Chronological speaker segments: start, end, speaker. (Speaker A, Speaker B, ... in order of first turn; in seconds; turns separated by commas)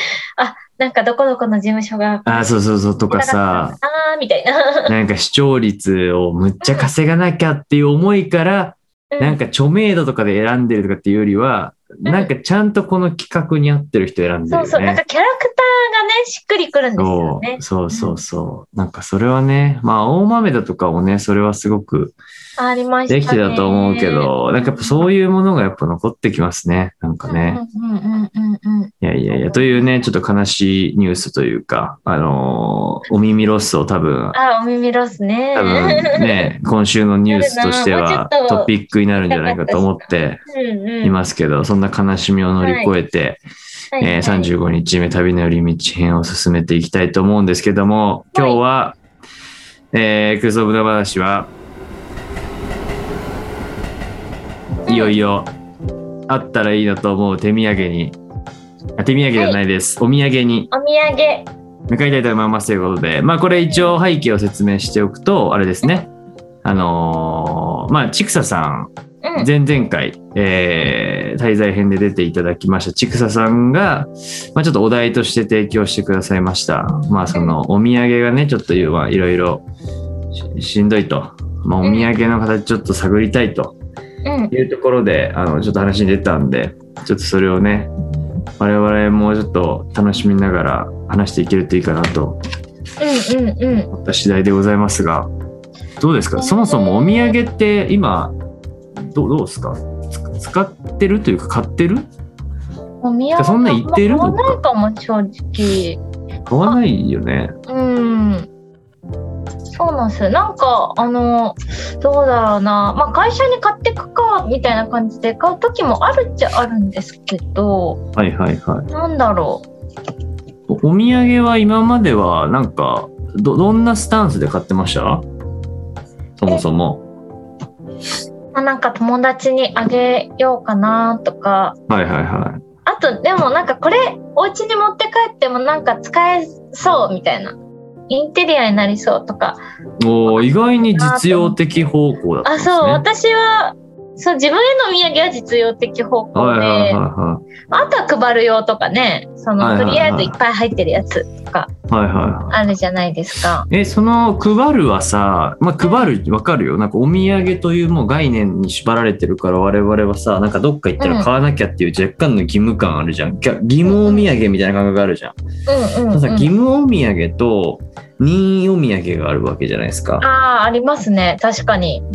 Speaker A: 0.4-2.5, Speaker B: 2.2-3.8, Speaker A: 3.1-5.0, Speaker B: 4.9-15.0, Speaker A: 6.6-6.9, Speaker A: 9.1-9.4, Speaker A: 12.1-12.3, Speaker A: 14.5-18.2, Speaker B: 17.0-22.2, Speaker A: 22.6-24.9, Speaker B: 23.1-27.6, Speaker A: 27.3-29.9, Speaker B: 29.0-34.4, Speaker A: 34.3-36.5, Speaker B: 35.5-40.4, Speaker A: 37.3-38.7, Speaker A: 39.3-41.2, Speaker B: 41.0-43.4, Speaker A: 42.6-42.9, Speaker A: 43.9-44.5, Speaker B: 44.0-49.0, Speaker A: 48.3-48.6, Speaker B: 49.9-51.5, Speaker A: 54.9-55.2, Speaker B: 54.9-55.5, Speaker B: 56.3-58.2, Speaker B: 59.0-60.7, Speaker A: 60.7-61.5, Speaker B: 61.9-66.1, Speaker B: 66.6-79.7, Speaker A: 69.2-69.5, Speaker B: 80.3-83.8, Speaker A: 81.8-82.1, Speaker A: 84.2-84.5, Speaker B: 84.5-87.9, Speaker B: 88.6-92.4, Speaker A: 93.0-93.9, Speaker B: 93.9-95.3, Speaker B: 96.0-98.3, Speaker A: 96.3-97.4, Speaker B: 99.0-102.1, Speaker A: 103.0-106.0, Speaker B: 103.4-104.6, Speaker B: 106.5-107.5, Speaker A: 107.7-108.5, Speaker A: 109.8-118.0, Speaker B: 118.2-118.9, Speaker A: 118.9-119.7, Speaker B: 120.7-125.3, Speaker B: 126.4-127.0, Speaker A: 128.5-131.8, Speaker B: 131.9-132.6, Speaker A: 132.9-137.6, Speaker A: 138.1-139.6, Speaker B: 140.0-143.1, Speaker A: 140.3-141.6, Speaker A: 142.4-147.0, Speaker B: 146.3-147.4, Speaker A: 147.7-151.7, Speaker B: 149.6-150.4, Speaker B: 151.9-152.6, Speaker A: 152.5-153.7, Speaker B: 153.7-165.4, Speaker A: 155.8-156.1, Speaker A: 161.0-161.3, Speaker A: 163.8-164.2, Speaker A: 165.7-166.5, Speaker B: 166.1-170.3, Speaker A: 170.2-172.0